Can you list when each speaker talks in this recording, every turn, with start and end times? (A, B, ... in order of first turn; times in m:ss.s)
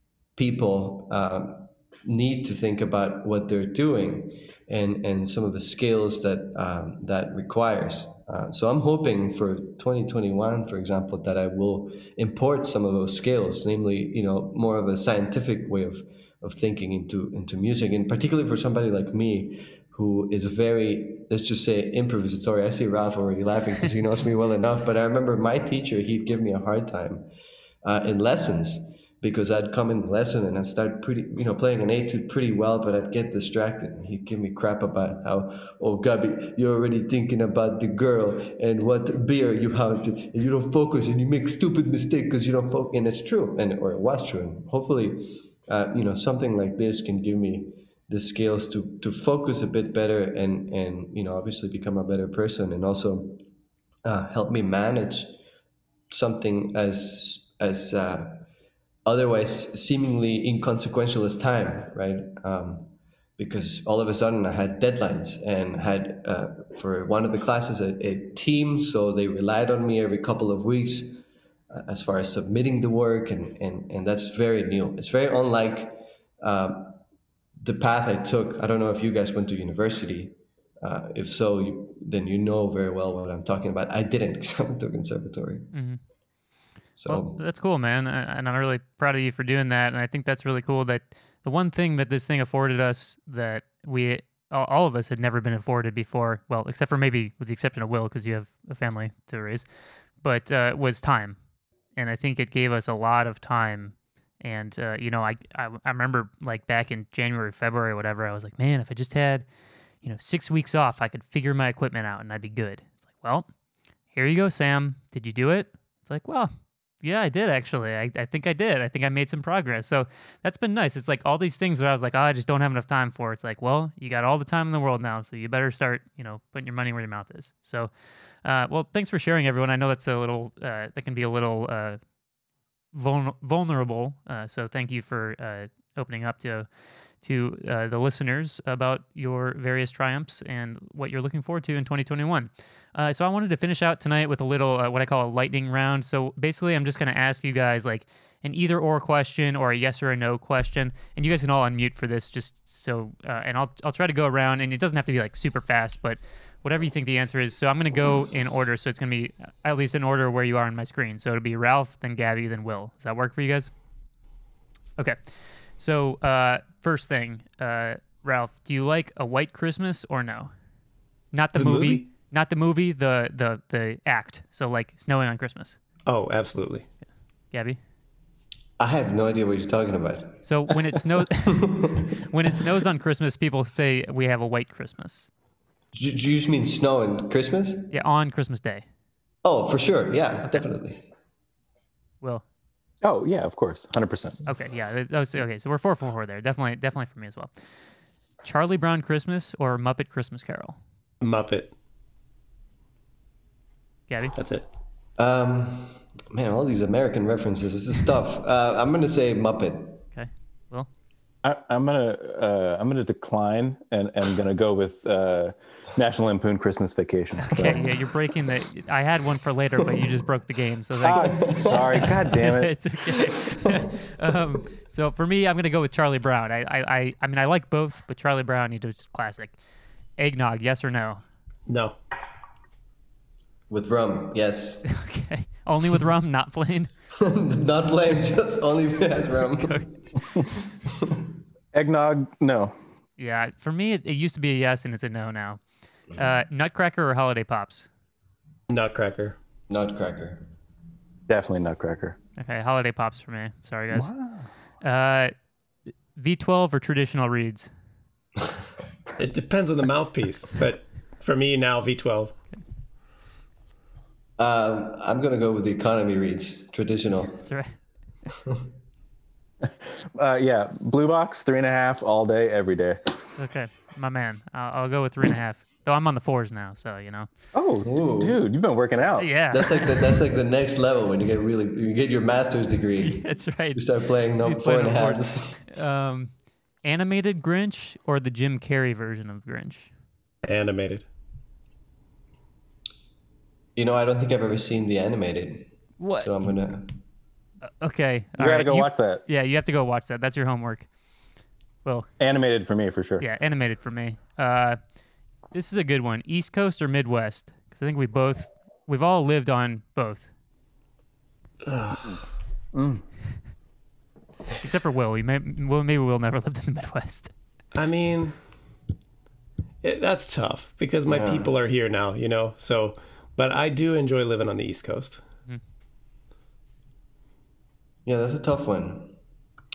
0:00.4-0:27.3 A
0:27.8-0:53.4 A
0:54.0-0:55.4 A
0:56.1-0:58.5 A
0:59.0-1:17.0 A
1:17.6-1:25.7 A
1:25.7-1:26.0 B
1:27.0-1:27.4 A
1:27.1-1:41.4 B
1:41.9-1:49.4 B
1:50.0-1:53.5 B
1:54.1-1:56.5 B
1:57.0-2:07.9 B
2:08.4-2:12.0 B
2:12.9-2:16.7 B
2:17.2-2:43.7 B
2:45.0-2:50.5 B
2:51.3-2:55.8 B
2:51.6-2:52.0 C
2:56.0-2:56.9 C
2:57.5-2:57.8 B
2:58.8-3:00.7 A
3:00.4-3:05.3 B
3:01.3-3:02.2 A
3:05.9-3:07.9 A
3:07.9-3:08.8 B
3:09.4-3:11.1 A
3:13.0-3:14.4 D
3:14.5-3:17.5 B
3:18.4-3:20.8 B
3:21.2-3:21.7 C
3:24.1-3:24.3 B
3:24.3-3:24.6 C
3:25.2-3:30.0 A
3:30.1-3:30.9 B
3:31.4-3:37.9 D
3:37.4-3:49.6 B
3:41.0-3:42.8 D
3:41.2-3:42.1 A
3:50.2-3:51.2 B
3:51.6-3:52.0 C
3:53.7-3:54.9 A
3:54.9-3:56.9 B
3:57.2-4:01.2 A
4:01.7-4:02.7 D
4:03.2-4:05.6 B
4:06.1-4:07.9 B
4:08.7-4:09.4 C
4:09.7-4:10.5 A
4:11.3-4:12.2 D
4:12.4-4:14.1 B
4:13.9-4:14.5 D
4:14.8-4:15.3 B
4:16.1-4:17.7 B
4:19.2-4:22.3 C
4:24.4-4:27.4 A
4:27.3-4:27.8 B
4:29.6-4:33.2 D
4:33.4-4:37.3 B
4:37.5-4:39.5 D
4:37.8-4:38.4 A
4:39.2-4:40.1 B
4:39.5-4:45.6 A
4:43.0-4:43.8 B
4:44.4-4:49.9 B
4:50.4-4:51.0 C
4:53.8-4:57.0 A
4:56.0-4:56.3 B
4:57.8-5:00.9 B
4:58.4-4:59.2 D
5:02.2-5:03.2 D
5:03.2-5:04.9 B
5:05.5-5:10.3 B
5:11.6-5:12.2 C
5:12.7-5:13.0 D
5:14.6-5:17.3 B
5:17.7-5:18.4 C
5:19.8-5:25.2 C
5:21.0-5:21.5 A
5:28.0-5:29.2 A